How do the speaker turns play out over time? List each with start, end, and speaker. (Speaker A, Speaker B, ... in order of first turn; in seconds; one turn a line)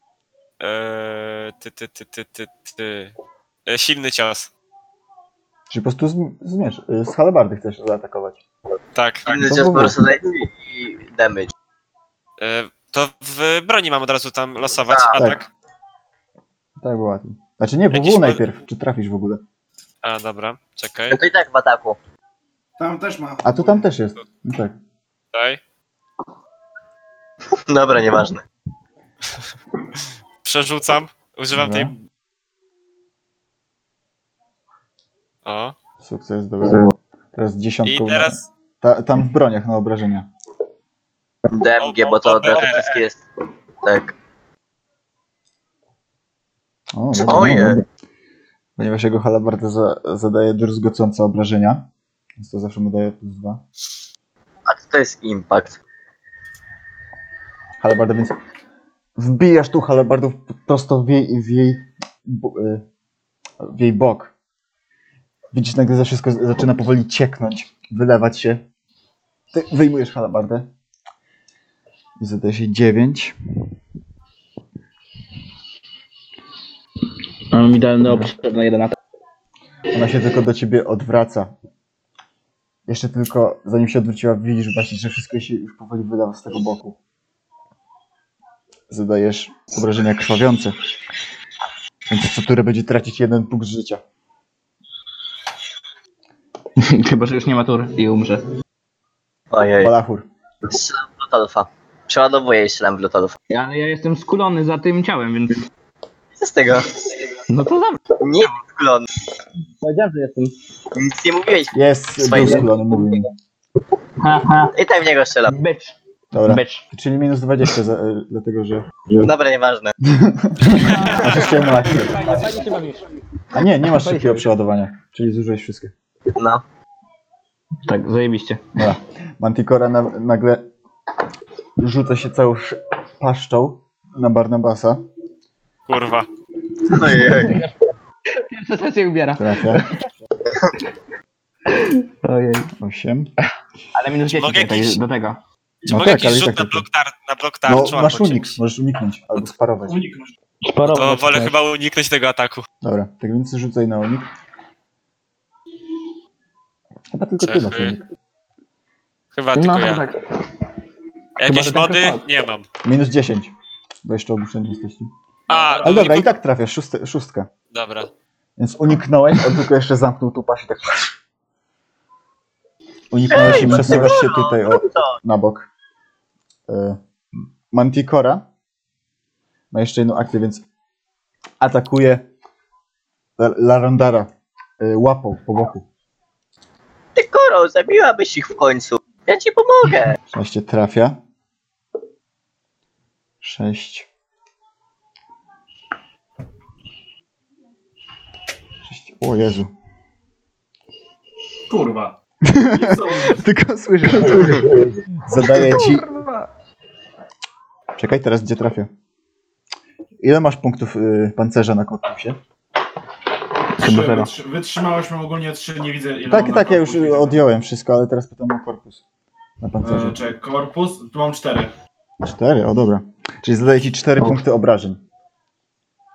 Speaker A: 0.6-3.1
Speaker A: 3.7-4.5
Speaker B: 5.7-8.4
Speaker A: 8.9-9.5
Speaker C: 9.2-11.5
Speaker B: 9.4-10.0
Speaker A: 12.4-15.5
Speaker C: 14.9-15.2
Speaker B: 16.8-19.4
Speaker A: 17.9-18.4
Speaker A: 20.0-21.2
Speaker C: 21.1-22.0
Speaker D: 22.8-23.8
Speaker B: 23.4-24.8
Speaker A: 25.3-25.6
Speaker C: 27.5-28.4
Speaker A: 30.4-31.9
Speaker B: 31.5-31.9
Speaker A: 35.4-35.7
Speaker B: 36.0-40.3
Speaker A: 37.9-38.4
Speaker C: 41.4-43.2
Speaker A: 41.8-43.0
Speaker C: 43.8-44.1
Speaker B: 46.9-47.8
Speaker C: 47.1-47.8
Speaker B: 48.8-51.9
Speaker B: 52.4-53.6
Speaker C: 54.6-55.8
Speaker B: 57.8-58.4
Speaker B: 59.1-62.8
Speaker B: 63.6-64.3
Speaker B: 65.5-68.6
Speaker B: 69.5-70.7
Speaker B: 72.2-73.3
Speaker E: 77.5-78.9
Speaker B: 78.0-78.3
Speaker B: 79.9-81.5
Speaker B: 82.9-87.0
Speaker B: 88.9-90.8
Speaker B: 92.1-94.0
Speaker E: 96.8-98.4
Speaker C: 99.5-99.9
Speaker B: 99.8-100.3
Speaker C: 100.7-103.3
Speaker E: 103.5-105.6
Speaker C: 106.3-107.2
Speaker E: 107.5-108.1
Speaker C: 108.2-109.1
Speaker E: 109.8-110.5
Speaker C: 110.9-112.7
Speaker B: 111.7-113.3
Speaker E: 114.2-114.8
Speaker C: 114.8-115.5
Speaker E: 115.5-116.8
Speaker B: 116.3-118.8
Speaker C: 119.2-119.9
Speaker B: 120.0-122.4
Speaker E: 121.8-123.0
Speaker B: 123.5-125.9
Speaker E: 123.8-124.5
Speaker C: 126.3-126.6
Speaker E: 127.8-128.6
Speaker B: 128.8-130.6
Speaker B: 131.8-135.0
Speaker A: 135.9-136.3
Speaker C: 136.9-137.6
Speaker E: 137.4-137.7
Speaker E: 138.3-140.0
Speaker B: 139.4-139.9
Speaker E: 141.7-142.7
Speaker B: 142.8-143.3
Speaker E: 143.9-145.4
Speaker A: 144.3-145.0
Speaker A: 145.9-148.6
Speaker B: 145.9-146.8
Speaker B: 147.7-150.0
Speaker D: 149.9-150.3
Speaker E: 150.6-151.6
Speaker A: 150.9-152.6
Speaker B: 152.8-154.3
Speaker B: 157.1-158.0
Speaker A: 157.4-158.0
Speaker A: 159.3-160.1
Speaker E: 159.5-160.5
Speaker A: 161.4-162.7
Speaker E: 161.4-162.2
Speaker B: 162.8-163.5
Speaker B: 164.0-165.1
Speaker A: 165.5-166.4
Speaker B: 165.8-167.5
Speaker A: 167.7-168.1
Speaker B: 168.6-171.1
Speaker B: 173.1-175.7
Speaker C: 173.2-175.2
Speaker B: 176.7-177.0
Speaker B: 177.7-178.4
Speaker B: 179.7-180.6
Speaker B: 181.6-182.2
Speaker B: 183.4-185.8
Speaker C: 187.2-190.2
Speaker B: 190.3-191.2
Speaker B: 193.4-194.1
Speaker B: 198.9-199.7
Speaker D: 201.7-202.2
Speaker B: 202.4-206.2
Speaker D: 202.7-203.4
Speaker E: 205.6-206.4
Speaker B: 208.0-208.9
Speaker B: 210.2-212.4
Speaker D: 213.8-217.4
Speaker E: 213.8-214.3
Speaker B: 216.3-219.0
Speaker B: 219.6-220.2
Speaker D: 219.8-221.7
Speaker B: 222.2-225.0